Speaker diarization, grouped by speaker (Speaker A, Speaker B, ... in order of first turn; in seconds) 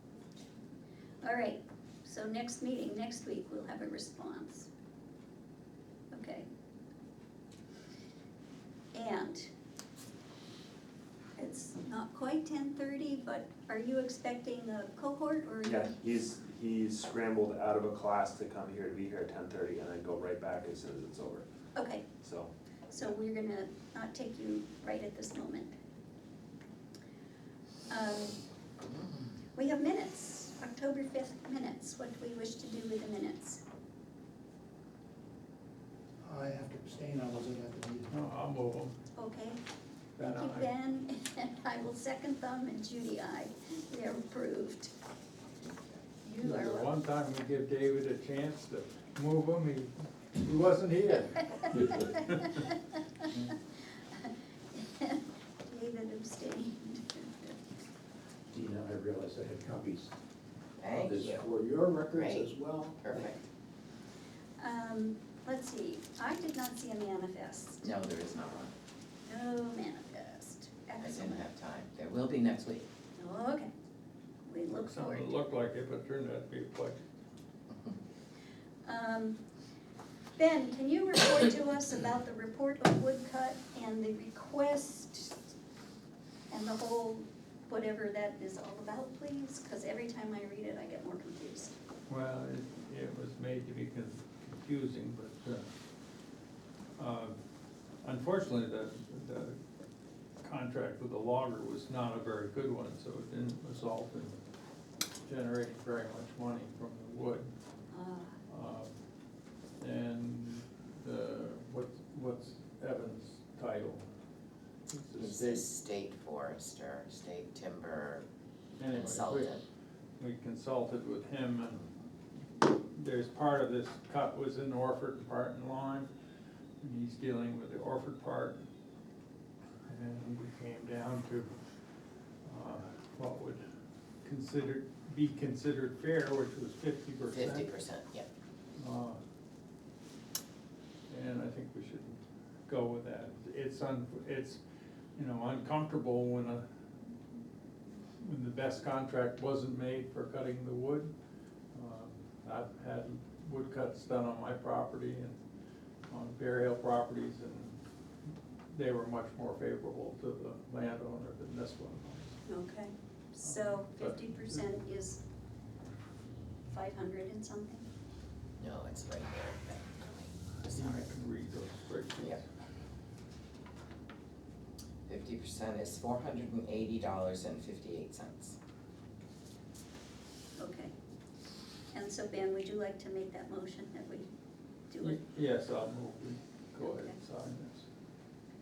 Speaker A: 1.2-4.7, 6.1-6.5, 8.9-9.5, 11.4-15.9, 21.8-22.1, 22.9-25.7, 27.9-28.4, 29.6-33.6, 39.1-39.6, 40.2-44.9, 46.2-46.9, 51.9-53.5, 54.1-57.6, 64.6-67.8, 69.3-71.5, 73.2-73.7, 74.4-75.3, 78.8-79.4, 80.4-85.5, 86.5-91.8, 107.9-108.4, 162.4-165.2, 166.7-167.9, 180.6-180.9, 181.9-184.3, 184.9-185.2, 186.8-187.1
Speaker B: 15.6-21.5, 22.2-22.5
Speaker C: 36.2-38.1, 61.3-63.0
Speaker D: 38.1-38.9, 40.2-40.7, 46.4-52.5, 74.8-77.0, 92.1-95.6, 97.0-97.3, 98.0-99.6, 100.4-104.4, 105.3-107.5, 108.5-108.9, 109.8-114.0, 114.9-115.5, 118.8-119.5, 120.2-121.8, 122.7-126.1, 126.8-128.6, 129.9-131.5, 132.4-133.6, 134.2-137.7, 138.8-139.2, 141.1-144.6, 145.2-146.6, 148.2-151.1, 151.7-155.3, 156.1-157.8, 158.7-162.3, 163.5-164.6, 170.7-172.4, 185.0-187.8
Speaker E: 45.6-46.0, 60.8-61.5, 62.1-63.4, 67.8-68.8, 71.0-72.9, 115.2-118.3, 118.9-119.7, 137.3-138.3, 168.6-171.1, 175.1-178.6
Speaker F: 58.5-60.1, 61.0-62.3